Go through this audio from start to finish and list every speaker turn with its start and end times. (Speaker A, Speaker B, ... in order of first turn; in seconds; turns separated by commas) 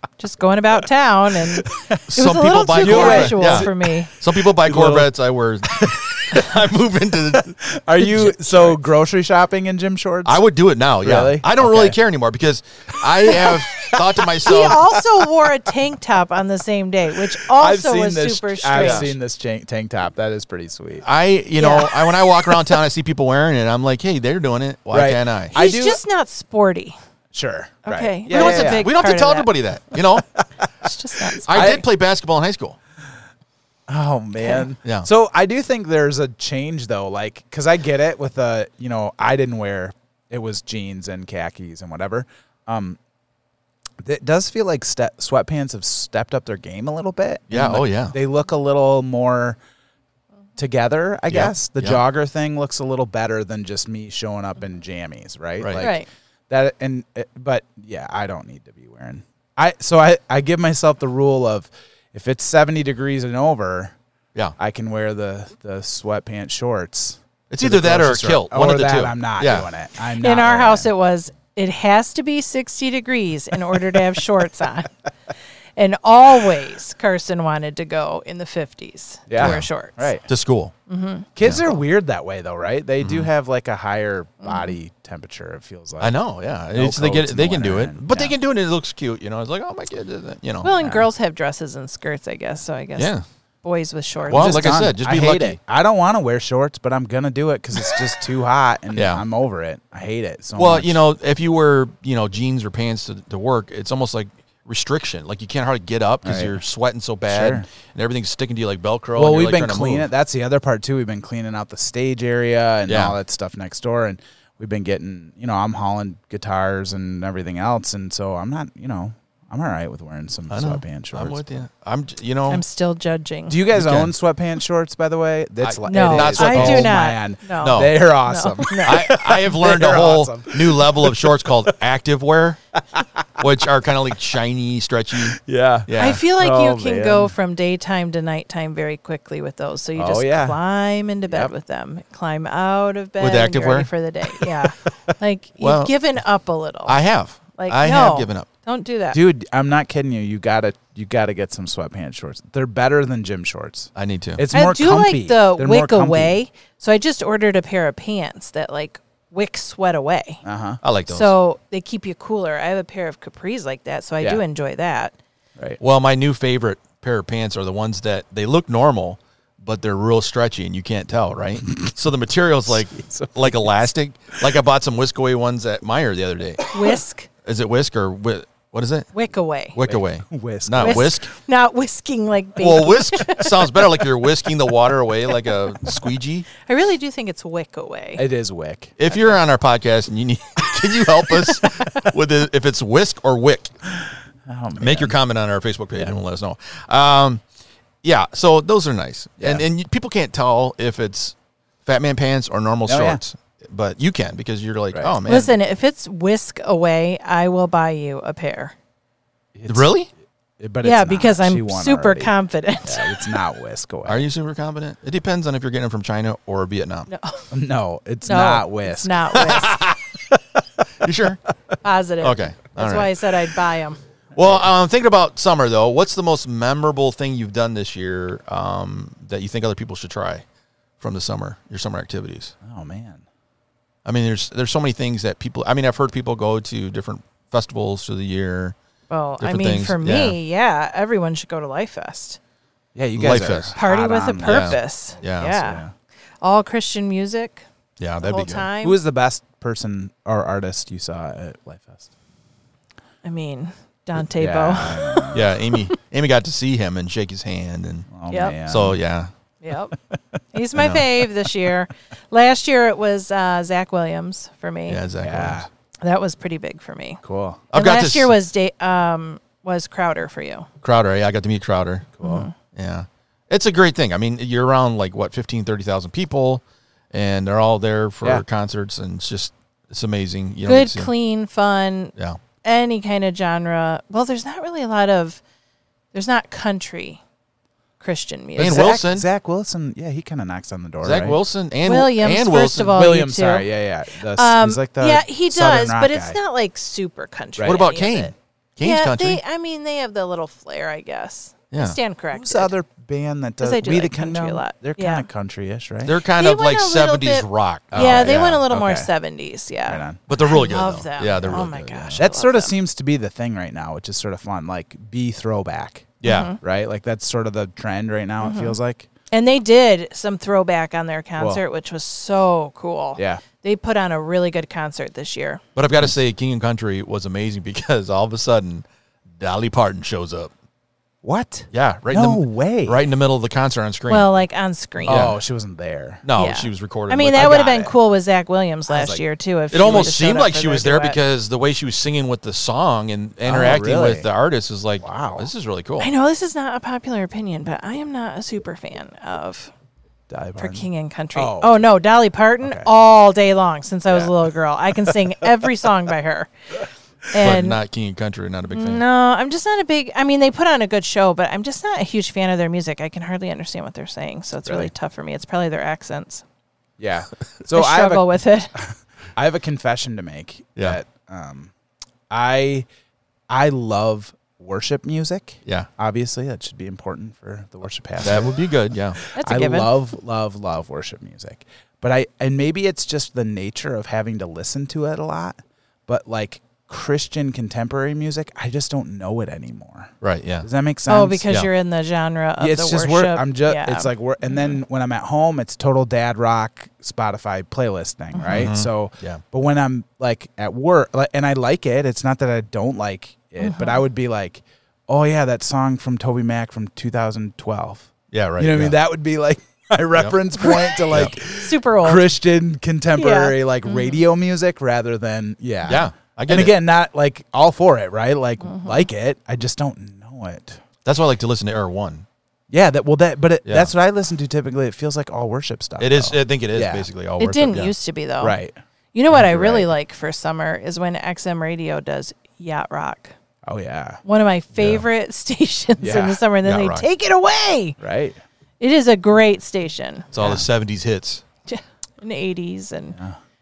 Speaker A: 0.2-4.1, Speaker B: 1.7-2.0, Speaker C: 2.1-8.8, Speaker B: 2.7-3.7, Speaker B: 4.6-5.1, Speaker B: 5.8-6.5, Speaker B: 7.6-10.4, Speaker C: 10.3-14.9, Speaker B: 11.0-12.0, Speaker B: 13.2-14.7, Speaker A: 14.4-19.1, Speaker B: 17.4-21.1, Speaker C: 18.8-19.1, Speaker C: 21.0-25.5, Speaker A: 21.6-21.9, Speaker B: 24.9-26.0, Speaker A: 25.5-27.0, Speaker B: 27.3-29.1, Speaker A: 27.9-29.5, Speaker C: 28.3-30.3, Speaker A: 30.8-31.8, Speaker B: 31.5-31.9, Speaker C: 31.5-32.8, Speaker B: 33.9-43.0, Speaker A: 34.4-34.7, Speaker B: 44.0-49.6, Speaker C: 47.5-48.2, Speaker B: 50.6-64.0, Speaker C: 51.3-52.0, Speaker A: 55.8-56.1, Speaker B: 64.6-70.9, Speaker C: 67.5-69.7, Speaker A: 70.2-74.9, Speaker A: 75.8-80.1, Speaker B: 79.3-80.3, Speaker C: 79.4-79.7, Speaker C: 80.3-80.7, Speaker A: 80.9-81.3, Speaker B: 81.4-86.2, Speaker C: 81.4-81.8, Speaker C: 83.0-83.3, Speaker A: 84.4-84.8, Speaker C: 86.0-90.7, Speaker B: 86.7-88.3, Speaker A: 90.6-93.1, Speaker B: 90.8-91.1, Speaker C: 93.0-93.2, Speaker A: 93.6-94.7, Speaker B: 94.3-101.0, Speaker C: 94.3-95.6, Speaker C: 98.9-99.2, Speaker C: 100.6-110.1, Speaker B: 106.2-106.6, Speaker B: 107.3-107.7, Speaker B: 109.2-121.7, Speaker C: 112.9-113.2, Speaker C: 120.5-122.6, Speaker A: 122.5-123.6, Speaker B: 123.5-131.7, Speaker C: 123.7-124.1, Speaker C: 125.6-127.0, Speaker A: 125.9-129.1, Speaker C: 127.6-128.0, Speaker C: 128.8-132.6, Speaker C: 133.4-136.2, Speaker B: 135.3-137.3, Speaker A: 136.0-147.0, Speaker B: 140.0-140.6, Speaker C: 143.2-143.9, Speaker B: 144.4-145.2, Speaker C: 145.6-145.9, Speaker C: 146.9-148.5, Speaker A: 147.6-149.2, Speaker B: 149.1-156.4, Speaker C: 153.9-154.4, Speaker A: 154.5-160.4, Speaker B: 160.4-160.8, Speaker C: 160.8-161.3, Speaker A: 161.1-165.2, Speaker C: 165.8-176.7, Speaker B: 172.7-173.7, Speaker A: 176.7-177.3, Speaker C: 177.4-179.1, Speaker A: 179.1-179.8, Speaker C: 179.8-181.3, Speaker B: 179.8-181.1, Speaker A: 180.8-183.7, Speaker C: 182.6-186.5, Speaker A: 186.6-188.3, Speaker B: 188.2-189.0, Speaker C: 189.0-193.7, Speaker B: 194.5-195.2, Speaker C: 194.8-197.4, Speaker C: 198.0-205.5, Speaker B: 199.4-199.7, Speaker B: 202.9-203.2, Speaker A: 205.3-208.7, Speaker B: 209.6-210.0, Speaker C: 209.7-210.1, Speaker B: 210.6-212.3, Speaker A: 210.8-213.2, Speaker B: 212.8-214.3, Speaker C: 214.1-217.1, Speaker A: 217.1-217.4, Speaker B: 217.5-219.3, Speaker A: 218.2-219.8, Speaker C: 219.4-220.2, Speaker C: 221.0-221.4, Speaker A: 221.8-224.0, Speaker C: 222.2-223.2, Speaker C: 224.3-230.4, Speaker B: 224.4-224.6, Speaker C: 231.0-232.6, Speaker B: 232.6-233.2, Speaker C: 234.1-238.8, Speaker A: 239.1-242.4, Speaker C: 239.4-240.4, Speaker B: 242.9-245.9, Speaker C: 243.2-243.8, Speaker A: 243.8-245.8, Speaker C: 244.4-245.6, Speaker A: 246.4-247.7, Speaker C: 248.0-248.7, Speaker A: 248.2-249.0, Speaker B: 248.8-252.1, Speaker A: 253.2-255.4, Speaker B: 254.3-255.5, Speaker C: 255.3-258.1, Speaker B: 258.1-259.0, Speaker A: 258.3-258.6, Speaker C: 258.7-259.3, Speaker A: 259.6-259.9, Speaker A: 260.5-265.0, Speaker C: 260.8-261.1, Speaker C: 264.9-265.7, Speaker B: 265.2-265.7, Speaker A: 266.0-267.2, Speaker B: 267.2-267.7, Speaker C: 267.7-268.3, Speaker A: 267.7-270.7, Speaker C: 270.8-272.1, Speaker B: 272.2-272.5, Speaker A: 272.2-272.5, Speaker C: 272.7-281.1, Speaker A: 280.6-282.1, Speaker A: 282.6-285.4, Speaker A: 286.1-287.2, Speaker A: 288.0-288.9, Speaker B: 288.6-291.4, Speaker C: 288.6-289.3, Speaker C: 291.0-293.0, Speaker A: 291.8-293.7, Speaker B: 292.9-296.4, Speaker A: 294.3-302.8, Speaker B: 297.6-297.8, Speaker C: 297.6-299.4, Speaker C: 301.7-302.0, Speaker B: 302.3-306.2, Speaker A: 303.6-305.3, Speaker C: 306.1-308.6, Speaker A: 306.4-312.8, Speaker B: 307.9-309.1, Speaker B: 309.9-310.2, Speaker C: 310.3-312.2, Speaker B: 312.2-319.1, Speaker C: 316.2-316.6, Speaker A: 316.2-316.6, Speaker A: 318.4-318.8, Speaker A: 319.3-325.6, Speaker B: 323.2-323.4, Speaker C: 325.8-328.9, Speaker C: 329.4-330.5, Speaker B: 331.2-333.0, Speaker C: 331.7-334.3, Speaker A: 334.1-335.3, Speaker C: 335.0-335.4, Speaker B: 335.1-336.2, Speaker C: 336.2-337.7, Speaker A: 336.4-341.2, Speaker B: 337.4-337.9, Speaker B: 338.9-339.2, Speaker C: 339.7-346.1, Speaker B: 343.4-344.3, Speaker B: 345.0-345.5, Speaker A: 346.0-349.7, Speaker B: 350.3-351.9, Speaker A: 350.6-356.5, Speaker B: 352.6-352.9, Speaker B: 355.0-355.5, Speaker A: 357.3-357.8, Speaker C: 357.4-359.0, Speaker A: 358.7-366.4, Speaker B: 364.7-364.9, Speaker B: 367.0-371.7, Speaker A: 367.7-368.7, Speaker B: 372.3-372.9, Speaker B: 373.5-378.7, Speaker C: 378.2-379.2, Speaker B: 379.2-391.5, Speaker A: 379.4-380.0, Speaker C: 390.2-390.7, Speaker A: 391.1-394.1, Speaker B: 392.6-420.8, Speaker C: 398.5-399.4, Speaker A: 403.6-404.0, Speaker C: 408.3-409.0, Speaker A: 410.6-412.3, Speaker C: 411.1-411.4, Speaker A: 413.2-414.2, Speaker C: 415.9-416.8, Speaker A: 418.6-419.1, Speaker C: 421.1-422.2, Speaker B: 422.7-427.1, Speaker C: 423.6-423.9, Speaker C: 426.0-427.9, Speaker A: 427.4-428.6, Speaker B: 428.4-428.8, Speaker A: 429.1-433.4, Speaker B: 429.3-429.9, Speaker B: 433.7-434.2, Speaker A: 434.2-438.0, Speaker C: 434.8-435.1, Speaker B: 436.0-436.4, Speaker C: 436.6-437.1, Speaker B: 438.0-438.4, Speaker A: 438.8-440.3, Speaker C: 440.3-441.4, Speaker B: 440.4-440.6, Speaker A: 441.7-443.2